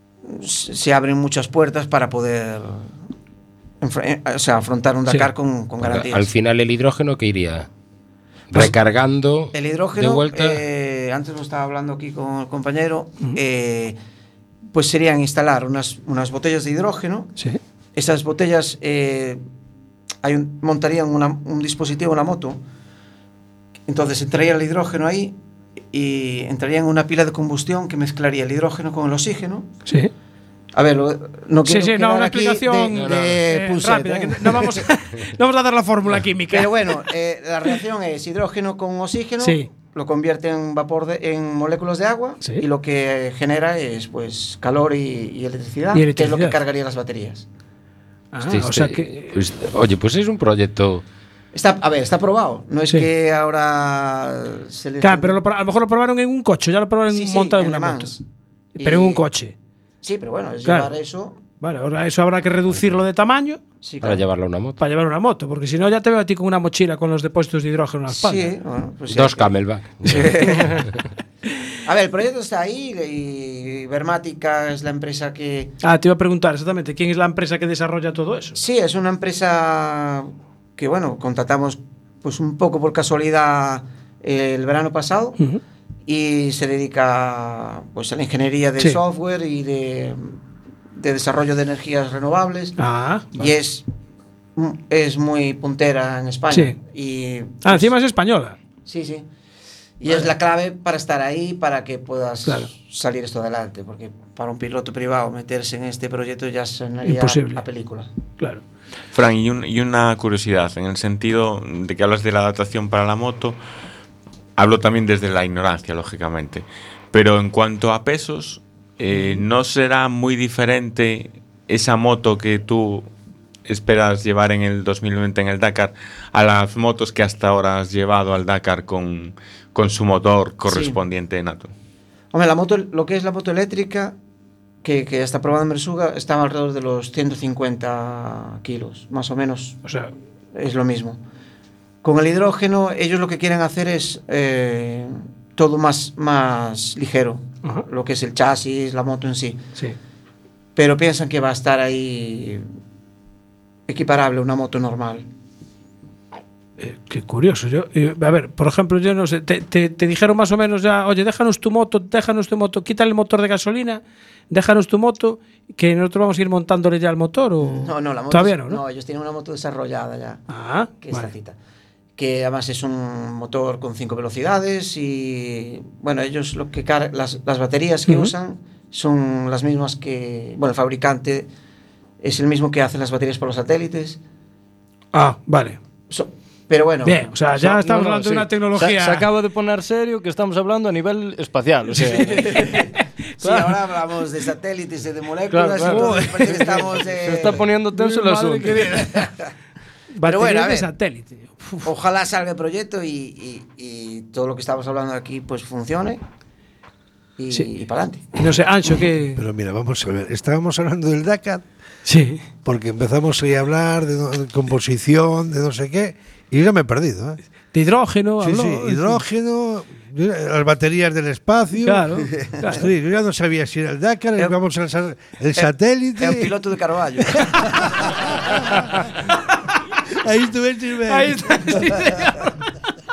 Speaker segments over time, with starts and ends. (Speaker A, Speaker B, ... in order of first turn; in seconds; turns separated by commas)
Speaker A: 0.3-2.9, Speaker A: 3.8-6.3, Speaker B: 5.8-7.7, Speaker B: 8.5-10.6, Speaker A: 9.5-13.9, Speaker A: 14.7-17.3, Speaker A: 17.9-19.4, Speaker A: 20.2-22.6, Speaker A: 23.9-25.3, Speaker A: 25.9-29.7, Speaker A: 30.8-34.8, Speaker C: 31.6-37.1, Speaker B: 33.0-33.4, Speaker A: 36.5-47.5, Speaker C: 39.4-39.7, Speaker C: 45.9-46.6, Speaker C: 48.3-49.4, Speaker B: 48.5-51.0, Speaker A: 51.5-55.4, Speaker C: 55.0-58.2, Speaker A: 57.1-58.2, Speaker A: 58.8-59.2, Speaker C: 58.8-59.5, Speaker A: 60.0-61.4, Speaker C: 60.6-60.9, Speaker C: 61.6-63.6, Speaker A: 63.8-64.2, Speaker B: 64.0-64.8, Speaker C: 64.8-68.5, Speaker A: 68.1-70.8, Speaker B: 69.1-70.3, Speaker C: 70.1-70.7, Speaker A: 71.8-75.8, Speaker C: 75.8-78.6, Speaker A: 78.5-85.4, Speaker A: 86.1-90.3, Speaker A: 91.0-92.8, Speaker C: 92.8-93.3, Speaker A: 93.3-93.8, Speaker A: 94.5-97.9, Speaker C: 96.5-96.8, Speaker C: 97.6-98.6, Speaker A: 98.8-99.2, Speaker A: 100.0-108.1, Speaker C: 102.4-102.7, Speaker C: 107.0-107.6, Speaker D: 109.1-113.5, Speaker D: 114.6-123.0, Speaker D: 123.7-131.7, Speaker A: 130.7-131.0, Speaker A: 132.3-134.1, Speaker A: 134.8-139.8, Speaker C: 139.8-140.1, Speaker A: 140.6-141.2, Speaker A: 142.0-149.6, Speaker A: 150.8-152.6, Speaker A: 153.9-155.2, Speaker C: 156.8-168.8, Speaker A: 167.6-170.4, Speaker C: 170.5-171.3, Speaker A: 171.0-171.5, Speaker A: 172.2-181.5, Speaker C: 178.1-178.3, Speaker A: 182.2-184.2, Speaker C: 185.1-185.8, Speaker A: 186.1-187.2, Speaker C: 187.0-189.3, Speaker E: 187.5-192.7, Speaker A: 192.0-197.7, Speaker C: 192.0-193.7, Speaker E: 195.5-199.1, Speaker C: 195.7-196.8, Speaker C: 197.9-199.3, Speaker A: 198.9-199.3, Speaker C: 200.1-201.8, Speaker A: 200.2-200.9, Speaker A: 201.8-206.2, Speaker A: 207.4-208.3, Speaker C: 208.3-209.4, Speaker F: 209.3-211.6, Speaker C: 212.1-212.4, Speaker F: 212.6-217.4, Speaker C: 217.7-219.2, Speaker F: 218.4-226.5, Speaker C: 221.8-222.8, Speaker A: 222.4-222.7, Speaker A: 225.6-228.3, Speaker F: 227.4-229.0, Speaker C: 229.3-229.7, Speaker F: 230.2-232.1, Speaker C: 231.1-232.6